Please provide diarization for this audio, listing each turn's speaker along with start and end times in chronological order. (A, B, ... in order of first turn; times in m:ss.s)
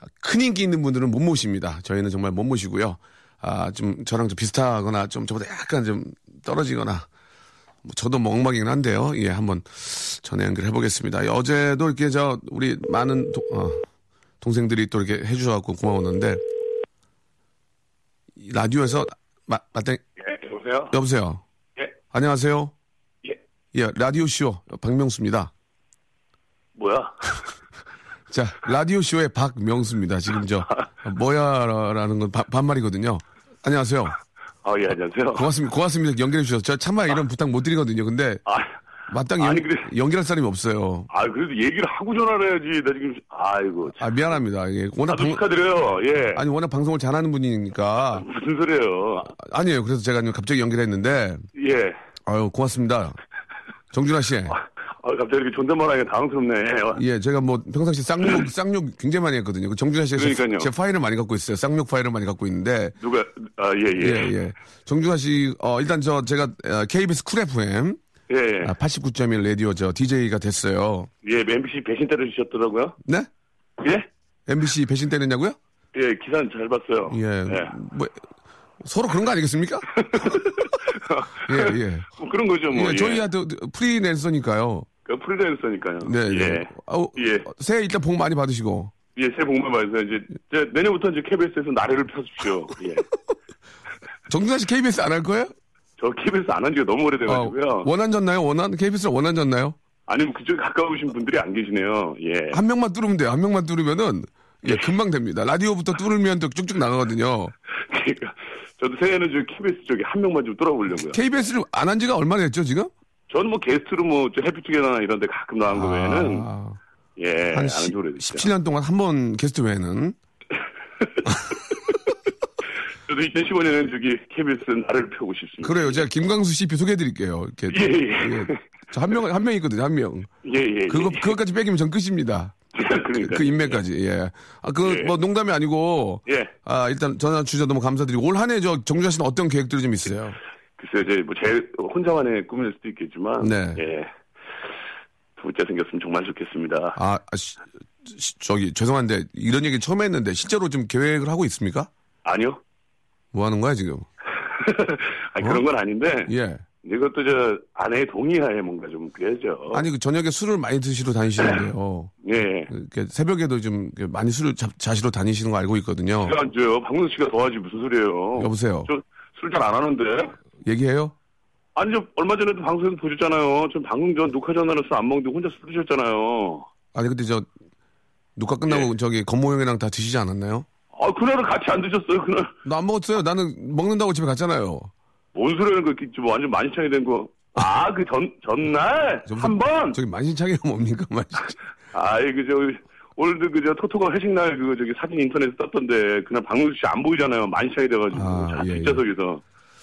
0:00.2-0:07.0 A
0:07.8-0:13.8 A
0:14.4-0:16.4 A
0:18.4-0:20.0 A
0:20.2-0:20.9 B
0:20.9-0:21.4 A
0:22.1-0:22.7 A
0:23.7-0:25.5 A
0:26.8-0:27.5 B
0:28.3-0:34.2 A
0:34.6-0:35.5 B
0:35.3-0:38.4 A
0:38.5-0:38.7 B
0:39.1-0:41.1 A
0:39.4-0:39.9 B
0:41.1-0:44.0 B
0:44.0-0:45.4 A
0:45.1-0:46.4 B
0:46.3-0:48.3 A
0:48.1-0:49.3 B
0:49.4-0:51.4 A
0:51.6-0:52.0 B
0:52.3-0:53.2 A
0:53.9-0:54.6 A
0:55.0-0:57.0 B
0:56.9-1:03.0 A
1:00.2-1:00.7 B
1:03.0-1:04.3 B
1:04.0-1:08.0 A
1:08.3-1:08.7 B
1:08.6-1:11.1 A
1:11.2-1:13.0 B
1:13.8-1:14.1 B
1:14.5-1:15.6 A
1:15.9-1:17.7 B
1:17.1-1:18.2 A
1:18.8-1:20.0 A
1:20.0-1:23.2 B
1:21.5-1:22.1 A
1:22.7-1:24.9 A
1:25.0-1:27.5 B
1:26.0-1:28.9 A
1:29.2-1:33.1 B
1:34.3-1:35.5 A
1:36.0-1:37.9 B
1:37.3-1:39.8 A
1:40.1-1:42.6 B
1:42.5-1:47.5 A
1:47.8-1:51.2 B
1:51.0-1:52.9 A
1:53.3-1:56.4 B
1:55.7-1:56.8 A
1:57.2-1:58.5 B
1:57.5-2:00.2 A
2:01.0-2:02.1 B
2:03.1-2:06.0 B
2:05.6-2:10.3 A
2:07.7-2:08.6 B
2:10.4-2:11.3 B
2:10.9-2:20.4 A
2:12.7-2:13.8 B
2:14.8-2:15.1 B
2:16.3-2:16.5 B
2:20.8-2:24.1 B
2:23.4-2:23.8 A
2:25.4-2:27.0 B
2:26.9-2:31.9 A
2:32.2-2:32.6 B
2:33.3-2:34.1 A
2:34.4-2:36.3 B
2:36.3-2:36.6 A
2:36.8-2:39.8 B
2:39.7-2:42.1 A
2:42.2-2:42.7 B
2:42.7-2:46.4 A
2:46.2-2:50.4 B
2:48.4-2:48.9 A
2:50.6-2:51.1 A
2:51.8-2:56.7 B
2:56.9-2:57.5 A
2:58.4-3:00.7 A
3:00.9-3:02.5 B
3:02.6-3:04.9 A
3:05.3-3:10.0 B
3:09.3-3:11.6 A
3:11.9-3:19.4 B
3:18.1-3:19.0 A